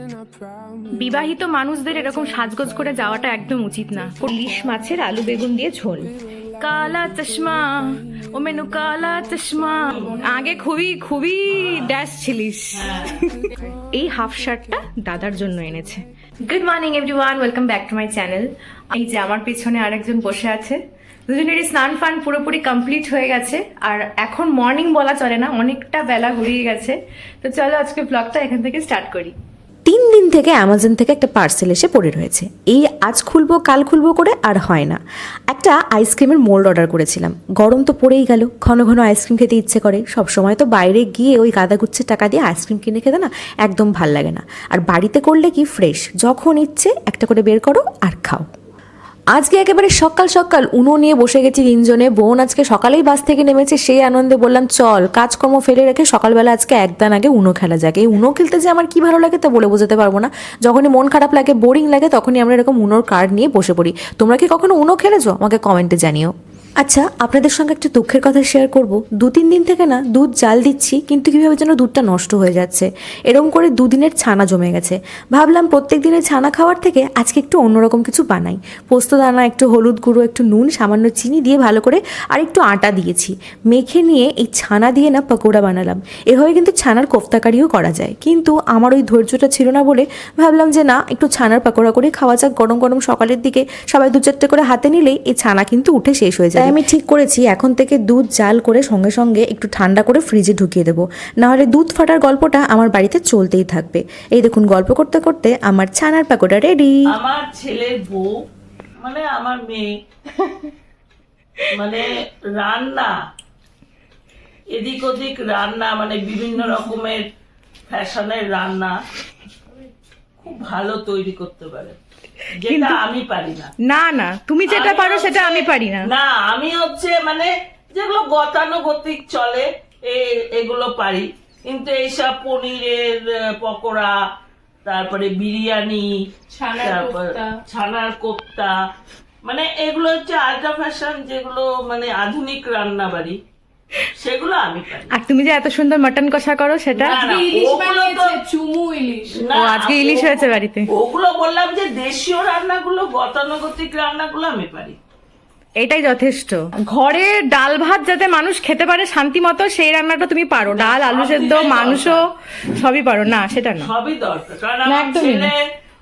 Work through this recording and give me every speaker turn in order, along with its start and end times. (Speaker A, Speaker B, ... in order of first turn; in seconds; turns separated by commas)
Speaker A: 0.9-20.8, Speaker B: 11.5-11.9, Speaker B: 12.7-13.2, Speaker A: 21.3-29.3, Speaker C: 29.9-48.4, Speaker C: 49.3-66.3, Speaker C: 66.8-106.9, Speaker B: 107.1-108.3, Speaker B: 109.0-109.8, Speaker B: 111.7-113.1, Speaker B: 114.7-117.2, Speaker B: 117.9-118.9, Speaker B: 120.4-122.0, Speaker B: 122.5-123.7, Speaker A: 122.7-123.0, Speaker A: 123.8-126.1, Speaker B: 124.7-134.1, Speaker B: 134.8-136.1, Speaker D: 136.5-137.6, Speaker B: 136.7-138.7, Speaker B: 139.4-143.4, Speaker B: 144.2-145.1, Speaker A: 145.1-147.2, Speaker B: 146.9-148.4, Speaker D: 147.0-149.4, Speaker B: 149.3-155.0, Speaker A: 149.5-150.9, Speaker A: 155.8-163.9, Speaker B: 160.7-162.2, Speaker B: 163.8-165.6, Speaker A: 164.8-165.5